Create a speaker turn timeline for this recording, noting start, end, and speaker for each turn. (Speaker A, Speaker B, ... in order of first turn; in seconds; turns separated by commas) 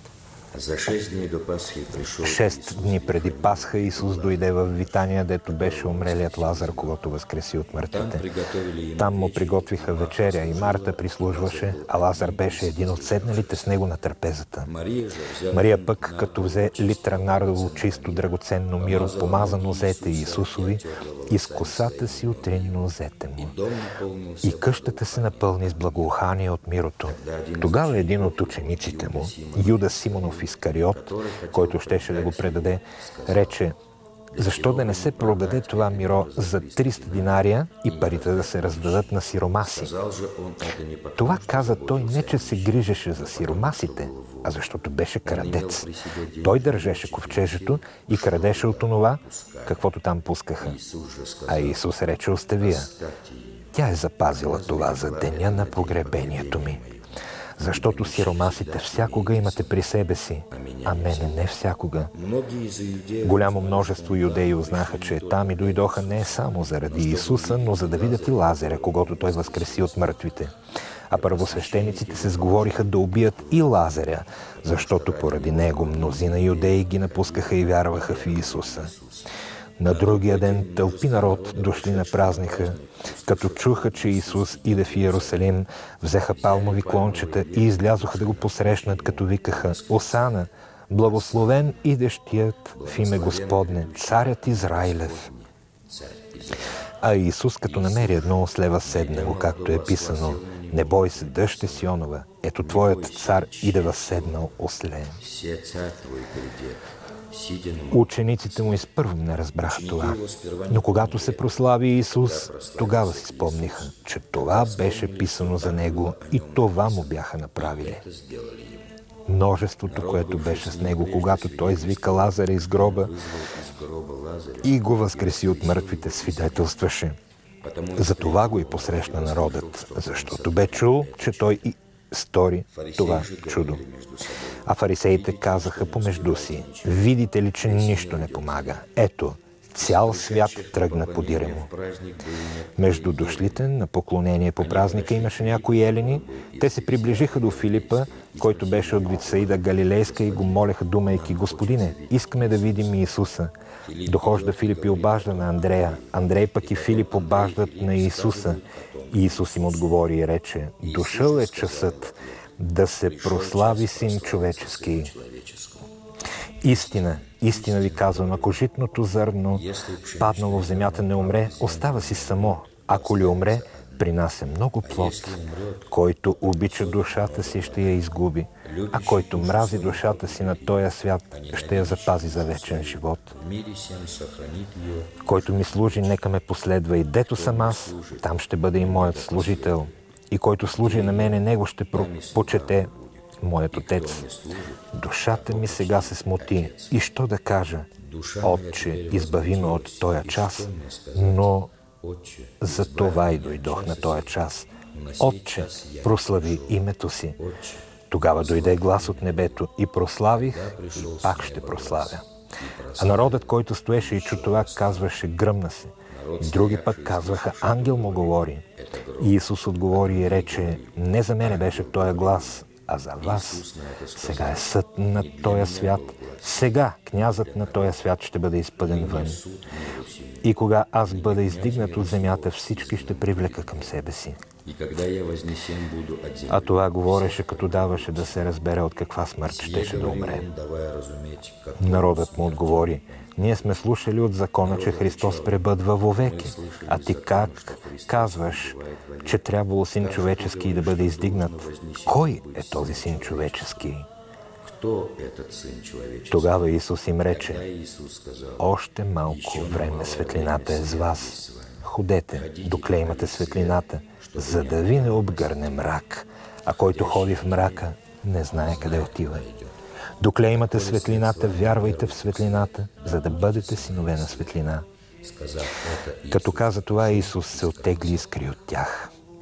Speaker A: 0.5-7.0, Speaker B: 2.2-8.2, Speaker A: 7.9-13.7, Speaker B: 8.9-14.7, Speaker A: 14.6-26.2, Speaker B: 15.5-23.6, Speaker B: 24.4-33.8, Speaker A: 27.0-33.6, Speaker A: 34.3-44.6, Speaker B: 34.4-39.9, Speaker B: 41.1-45.9, Speaker A: 45.2-49.9, Speaker B: 46.4-50.8, Speaker A: 50.6-53.7, Speaker B: 51.5-52.9, Speaker B: 53.7-56.8, Speaker A: 54.3-57.0, Speaker B: 57.6-62.1, Speaker A: 57.6-59.8, Speaker A: 60.5-61.4, Speaker A: 62.1-70.5, Speaker B: 63.2-70.5, Speaker B: 71.1-78.9, Speaker A: 71.1-73.9, Speaker A: 74.6-79.2, Speaker B: 79.8-95.3, Speaker A: 79.8-85.6, Speaker A: 86.2-90.3, Speaker A: 91.0-91.7, Speaker A: 92.7-96.8, Speaker B: 97.0-105.2, Speaker A: 97.6-102.0, Speaker A: 102.6-104.5, Speaker A: 105.2-108.1, Speaker B: 107.9-118.0, Speaker A: 109.6-111.5, Speaker A: 112.1-118.9, Speaker B: 119.3-123.1, Speaker A: 119.8-126.7, Speaker B: 124.6-127.2, Speaker A: 127.6-131.6, Speaker B: 128.0-133.8, Speaker A: 132.7-138.8, Speaker B: 134.7-141.7, Speaker A: 139.8-143.7, Speaker B: 142.8-153.5, Speaker A: 144.6-153.1, Speaker A: 153.8-159.9, Speaker B: 154.0-165.1, Speaker A: 160.8-162.4, Speaker A: 163.0-165.9, Speaker B: 166.6-169.7, Speaker A: 167.2-168.6, Speaker A: 169.5-174.0, Speaker B: 170.2-183.3, Speaker A: 174.8-176.0, Speaker A: 176.5-178.0, Speaker A: 178.6-186.1, Speaker B: 185.2-194.2, Speaker A: 187.3-189.9, Speaker A: 190.8-197.0, Speaker B: 194.9-197.9, Speaker A: 198.0-206.8, Speaker B: 198.4-201.7, Speaker B: 202.6-207.4, Speaker A: 207.4-209.6, Speaker B: 208.1-212.2, Speaker A: 210.3-215.1, Speaker B: 213.0-218.6, Speaker A: 216.1-228.0, Speaker B: 219.2-229.4, Speaker A: 228.8-234.0, Speaker B: 230.4-234.4, Speaker A: 234.6-238.5, Speaker B: 236.5-240.4, Speaker A: 239.4-243.8, Speaker B: 241.8-254.1, Speaker A: 244.6-253.9, Speaker A: 254.6-256.7, Speaker B: 256.3-257.6, Speaker A: 257.2-258.7, Speaker B: 258.6-269.4, Speaker A: 259.2-265.7, Speaker A: 266.8-267.9, Speaker A: 268.6-269.7, Speaker B: 270.2-274.9, Speaker A: 270.5-274.6, Speaker A: 275.2-278.5, Speaker B: 276.3-279.1